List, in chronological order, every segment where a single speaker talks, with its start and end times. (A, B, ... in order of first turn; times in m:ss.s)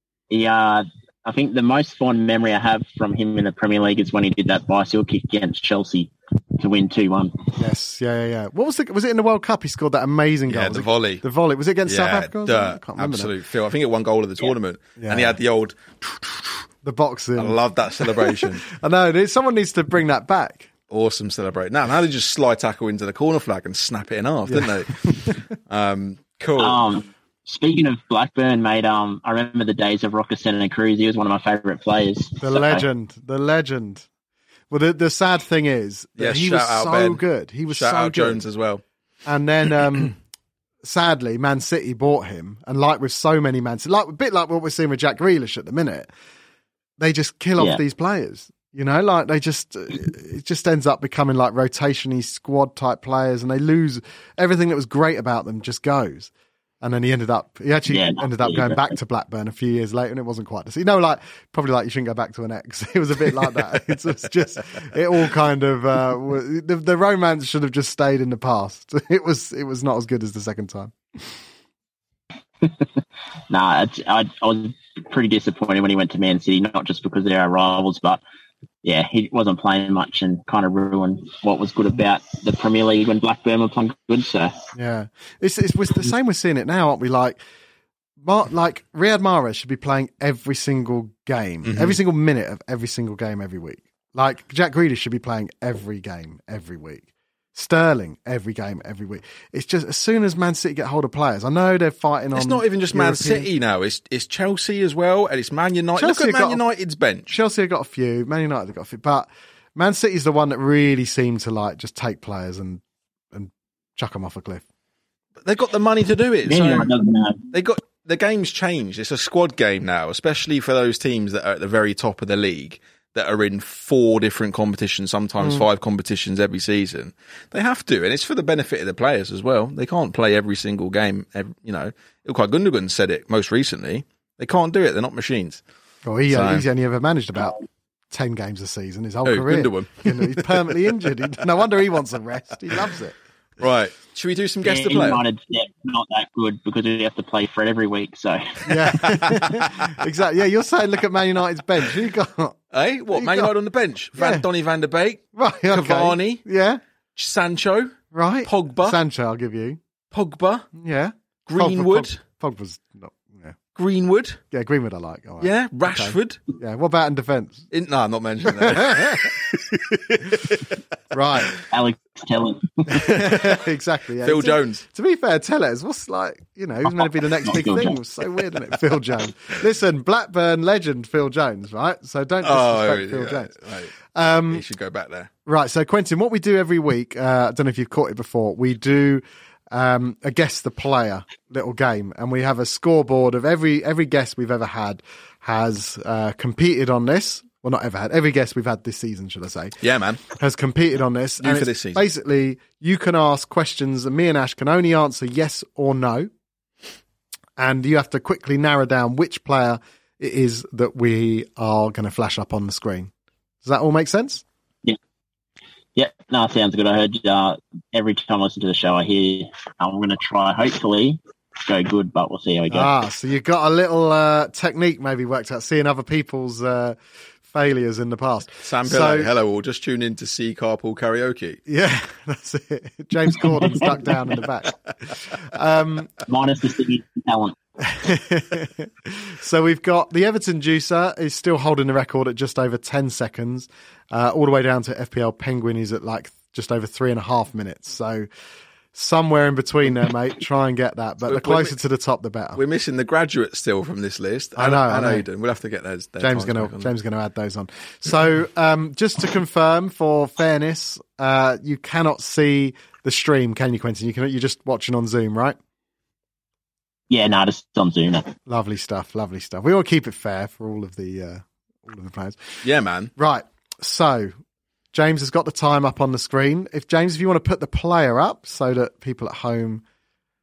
0:00.3-0:07.5 A
0:07.6-0:13.3 B
0:10.5-0:11.2 C
0:11.8-0:16.6 C
0:15.0-0:15.4 B
0:16.8-0:20.7 B
0:17.4-0:18.6 C
0:20.9-0:26.8 C
0:24.5-0:25.4 B
0:26.6-0:32.8 A
0:32.4-0:34.1 B
0:34.7-0:38.4 B
0:36.2-0:38.8 C
0:39.2-0:40.1 B
0:40.8-0:46.1 B
0:47.0-1:10.9 B
0:57.9-0:58.9 A
1:12.6-1:12.9 A
1:13.5-1:18.2 A
1:18.8-1:24.6 A
1:24.7-1:27.4 B
1:28.2-1:43.5 B
1:31.6-1:32.0 C
1:42.3-1:47.3 C
1:46.0-1:46.6 B
1:47.3-1:52.8 B
1:53.3-1:54.6 B
1:55.4-1:56.9 C
1:56.4-1:57.5 A
1:57.5-2:15.6 C
2:16.0-2:17.6 B
2:16.3-2:16.6 C
2:18.1-2:23.2 B
2:19.2-2:20.6 C
2:23.6-2:25.2 C
2:24.6-2:28.9 A
2:28.6-2:32.6 B
2:29.1-2:29.9 C
2:32.7-2:36.4 C
2:33.1-2:33.5 B
2:34.2-2:34.4 B
2:35.3-2:36.8 B
2:37.2-2:39.0 C
2:38.1-2:39.8 B
2:40.1-2:40.7 C
2:40.7-2:43.6 B
2:41.4-2:42.2 C
2:43.7-2:44.4 C
2:44.5-2:47.7 B
2:45.4-2:46.4 C
2:47.7-2:50.8 C
2:48.4-2:50.6 B
2:51.1-2:51.6 B
2:51.6-2:53.1 A
2:52.9-2:53.6 C
2:52.9-3:04.6 B
2:54.2-2:54.8 C
2:57.0-2:58.0 A
3:02.4-3:03.9 C
3:04.4-3:05.3 C
3:05.4-3:19.8 B
3:19.8-3:20.2 C
3:20.3-3:26.3 B
3:21.4-3:22.0 C
3:27.6-3:33.1 B
3:33.6-3:34.4 B
3:36.0-3:42.9 A
3:42.7-3:49.3 B
3:48.6-3:51.6 C
3:51.7-3:56.2 B
3:53.4-3:54.4 A
3:56.2-3:57.6 A
3:57.8-4:08.3 B
4:08.9-4:12.6 B
4:11.3-4:11.7 C
4:12.6-4:16.9 C
4:14.6-4:15.2 B
4:16.2-4:25.6 B
4:27.1-4:28.3 A
4:28.5-4:32.4 B
4:32.6-4:33.1 C
4:33.2-4:34.3 B
4:34.9-4:39.8 B